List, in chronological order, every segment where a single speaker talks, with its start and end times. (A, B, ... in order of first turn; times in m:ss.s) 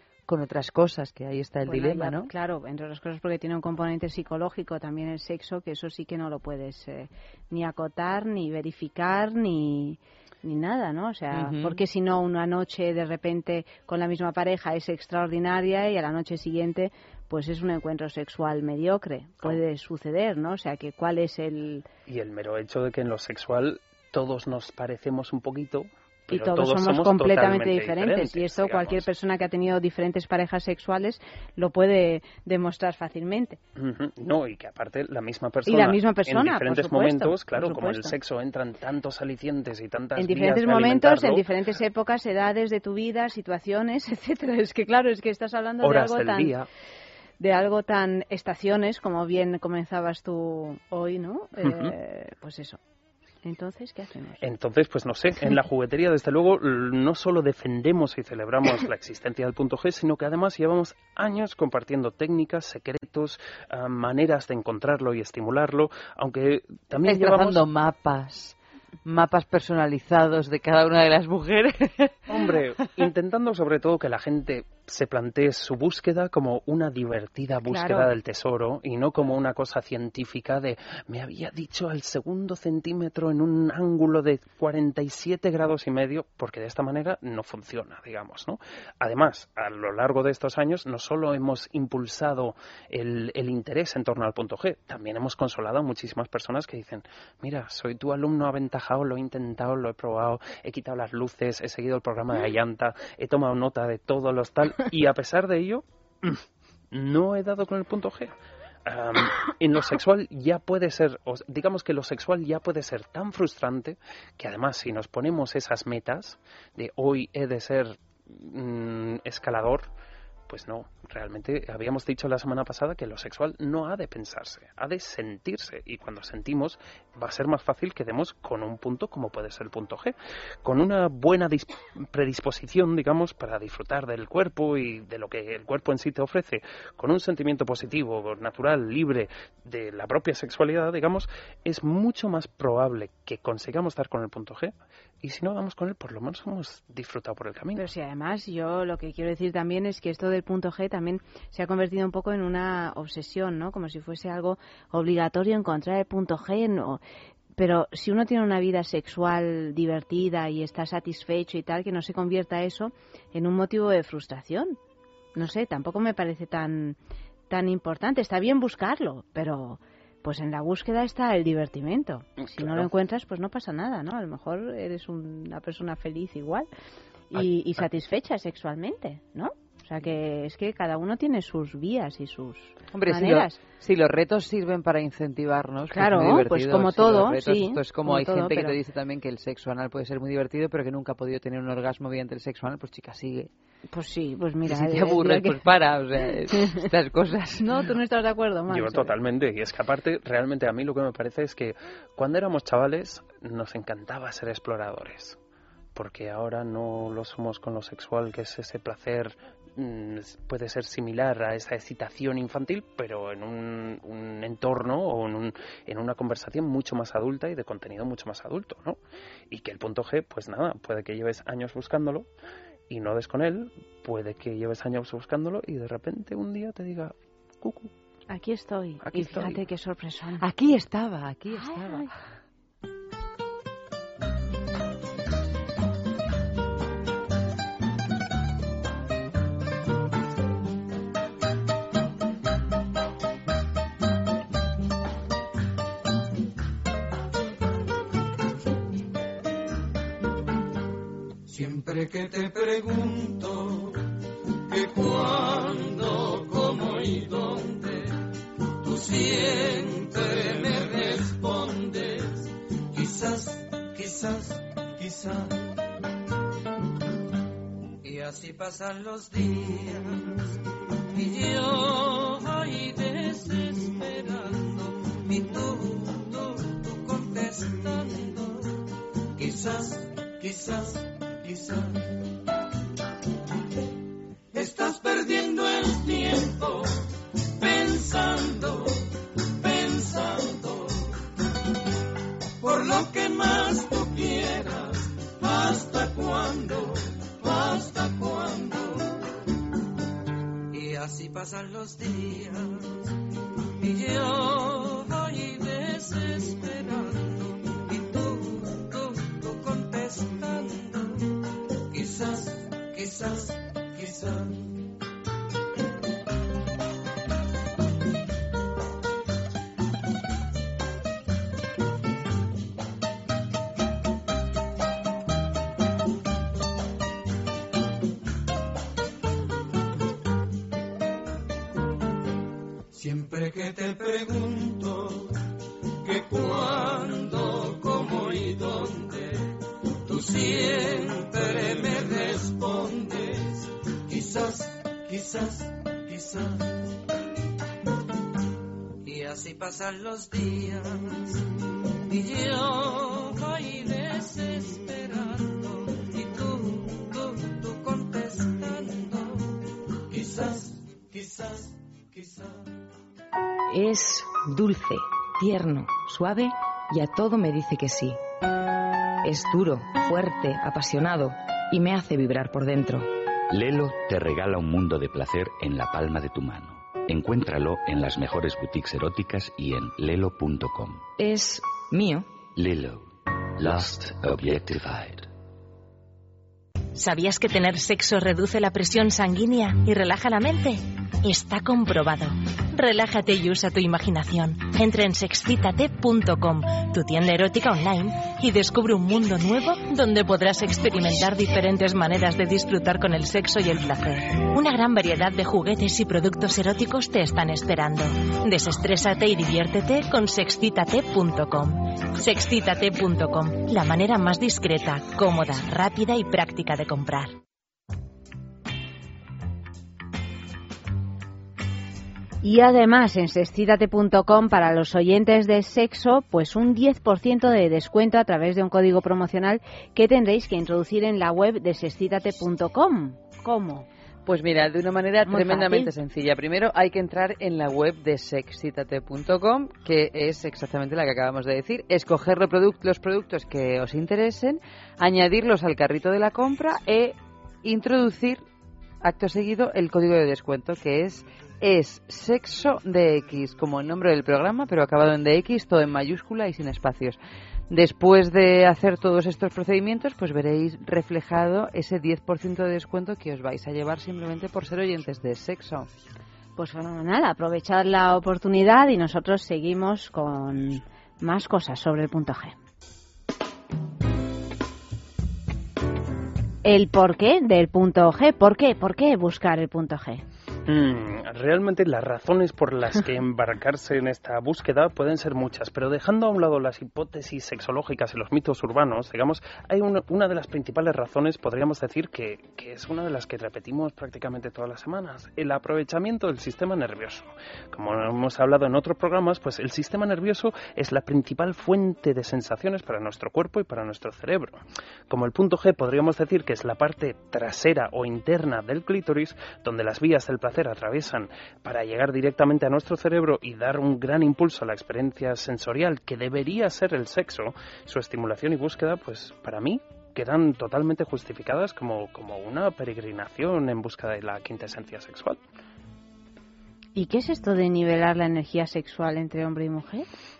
0:00.3-0:02.3 A
0:01.7-0:21.8 B
0:11.3-0:11.8 A
0:22.1-0:29.1 C
0:26.3-0:33.6 B
0:33.8-0:41.5 C
0:35.7-0:38.2 B
0:40.2-0:46.6 B
0:45.8-0:46.7 C
0:47.4-0:52.8 B
0:51.6-0:52.0 C
0:53.4-0:54.5 B
0:54.4-1:07.6 C
1:07.0-1:12.3 A
1:12.3-1:48.3 C
1:17.6-1:18.1 B
1:48.9-1:59.9 C
2:00.5-2:27.8 C
2:27.8-2:37.0 B
2:37.6-2:44.8 B
2:45.4-2:47.0 B
2:47.5-2:56.7 B
2:52.4-2:52.9 C
2:57.3-3:03.6 B
3:02.9-3:13.5 A
3:05.9-3:08.8 B
3:13.9-3:15.6 B
3:14.7-3:17.7 A
3:17.6-3:19.1 B
3:18.7-3:25.4 C
3:26.0-3:39.0 C
3:39.5-3:42.3 C
3:42.9-3:47.9 C
3:48.3-3:50.4 B
3:49.0-3:49.6 C
3:50.4-3:52.1 A
3:51.5-3:52.1 B
4:11.8-4:12.6 D
4:15.3-4:17.3 D
4:20.6-4:21.5 D
4:31.4-4:31.8 D
4:32.9-4:34.0 D
4:44.6-4:46.6 D
4:47.6-4:48.6 D
4:52.6-4:54.6 D
4:55.6-4:56.8 D
5:05.9-5:06.7 D
5:36.3-5:38.7 D
5:40.6-5:42.9 D
5:53.4-5:54.9 D
6:03.7-6:08.2 E
6:09.2-6:13.1 E
6:13.5-6:21.0 F
6:21.2-6:22.3 E
6:22.4-6:25.3 F
6:27.0-6:57.3 G
7:02.4-7:13.9 B
7:14.3-7:28.4 A
7:15.3-7:15.9 B
7:29.0-7:37.2 A
7:37.7-7:45.9 A
7:46.6-7:52.6 B
7:56.6-8:00.2 B
8:00.7-8:45.4 C
8:47.0-8:50.1 B